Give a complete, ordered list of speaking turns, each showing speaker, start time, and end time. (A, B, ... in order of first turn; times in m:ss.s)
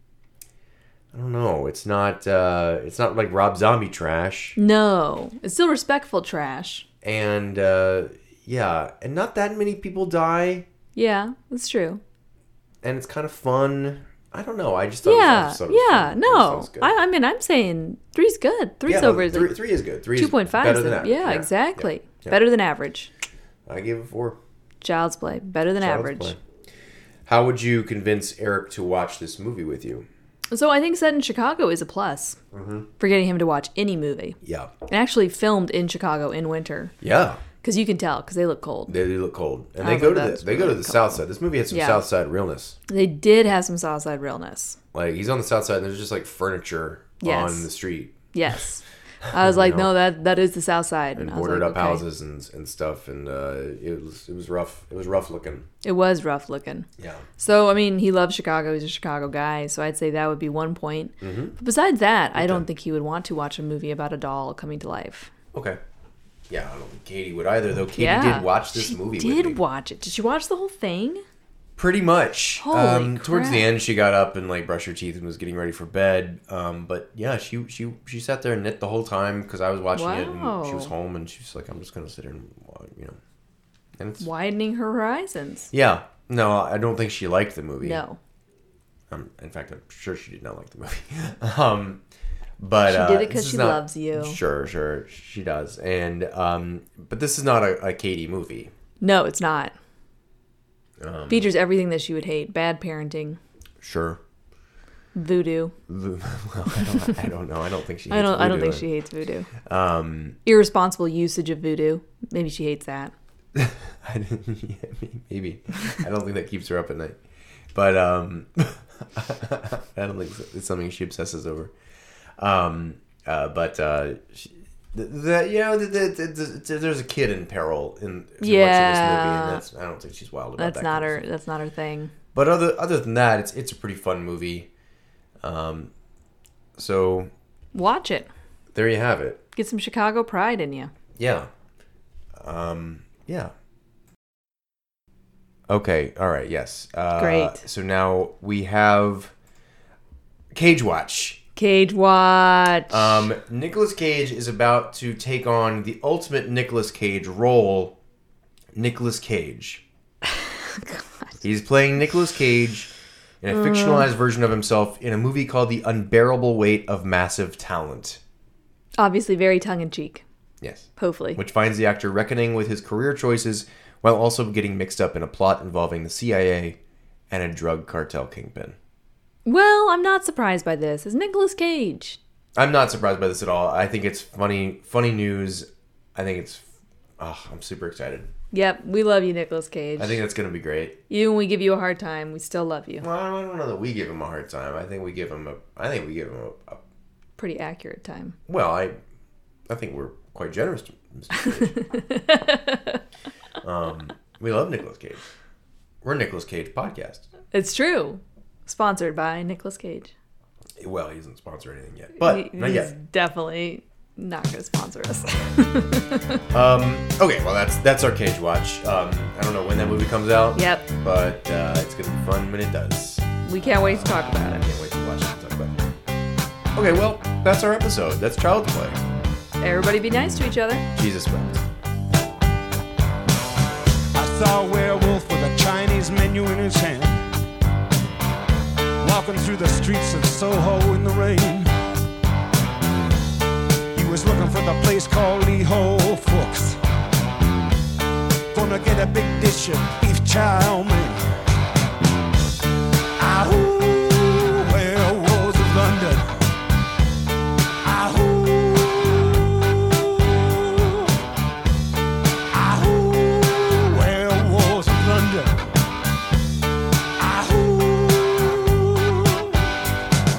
0:01.1-0:04.6 A
0:04.6-0:06.8 B
0:07.0-0:10.7 A
0:10.9-0:12.0 B
0:12.8-0:16.9 A
0:15.0-0:19.6 B
0:18.8-0:22.4 A
0:20.2-0:23.1 B
0:23.6-0:24.4 A
0:24.8-0:26.3 B
0:25.8-0:26.4 A
0:27.2-0:30.1 A
0:30.5-0:32.4 B
0:32.5-0:32.9 A
0:33.0-0:36.9 B
0:34.4-0:34.7 A
0:37.0-0:37.4 A
0:37.6-0:39.0 B
0:38.9-0:42.8 A
0:39.8-0:42.0 B
0:42.9-0:44.8 B
0:44.9-0:48.2 A
0:47.2-0:47.7 B
0:48.3-0:52.0 B
0:49.3-0:49.9 A
0:51.2-0:55.7 A
0:55.8-0:56.9 B
0:57.0-0:57.2 A
0:57.4-1:05.3 B
1:01.2-1:01.6 A
1:02.3-1:02.6 A
1:05.5-1:05.8 A
1:06.5-1:09.6 A
1:07.9-1:11.2 B
1:11.8-1:23.2 A
1:12.6-1:13.7 B
1:19.9-1:20.9 B
1:24.0-1:24.2 A
1:24.2-1:25.7 B
1:25.7-1:28.0 A
1:27.8-1:28.2 B
1:29.1-1:32.0 A
1:32.6-1:38.7 A
1:32.9-1:34.4 B
1:39.0-1:39.7 B
1:41.0-1:41.5 A
1:41.3-1:43.4 B
1:43.8-1:44.2 A
1:45.1-1:45.7 B
1:45.9-1:48.9 A
1:48.1-1:49.5 B
1:49.6-1:50.4 A
1:50.4-1:53.1 B
1:53.5-1:57.2 A
1:57.7-2:01.7 A
2:02.4-2:11.2 A
2:08.4-2:09.6 B
2:10.6-2:12.1 B
2:12.3-2:14.7 A
2:15.4-2:15.9 A
2:16.8-2:17.3 A
2:17.7-2:18.3 B
2:18.7-2:19.4 A
2:19.6-2:20.9 B
2:21.2-2:21.5 A
2:22.4-2:23.5 A
2:25.7-2:29.3 A
2:27.2-2:27.6 B
2:30.5-2:31.4 A
2:31.6-2:33.2 B
2:32.9-2:38.0 A
2:38.7-2:39.8 A
2:40.2-2:41.4 B
2:41.4-2:48.2 A
2:43.5-2:44.1 B
2:49.0-2:50.2 B
2:50.6-2:56.8 A
2:51.0-2:51.4 B
2:57.3-2:58.8 A
2:59.4-3:02.2 B
3:02.6-3:06.6 A
3:07.2-3:08.3 A
3:08.5-3:10.2 B
3:10.0-3:11.0 A
3:11.1-3:13.0 B
3:13.0-3:16.8 A
3:17.4-3:18.4 B
3:18.5-3:19.0 A
3:19.7-3:21.8 A
3:21.3-3:23.0 B
3:23.6-3:25.2 A
3:26.0-3:27.3 A
3:27.5-3:30.1 B
3:30.8-3:32.9 A
3:32.2-3:36.4 B
3:36.5-3:45.8 A
3:40.5-3:40.9 B
3:43.4-3:44.6 B
3:46.7-3:49.0 A
3:49.6-3:50.8 B
3:50.9-3:51.6 A
3:54.1-3:57.2 C
3:59.0-4:01.7 C
4:03.9-4:06.8 C
4:08.5-4:11.2 C
4:13.2-4:16.4 C
4:17.8-4:21.1 C
4:22.5-4:25.6 C
4:27.2-4:29.7 C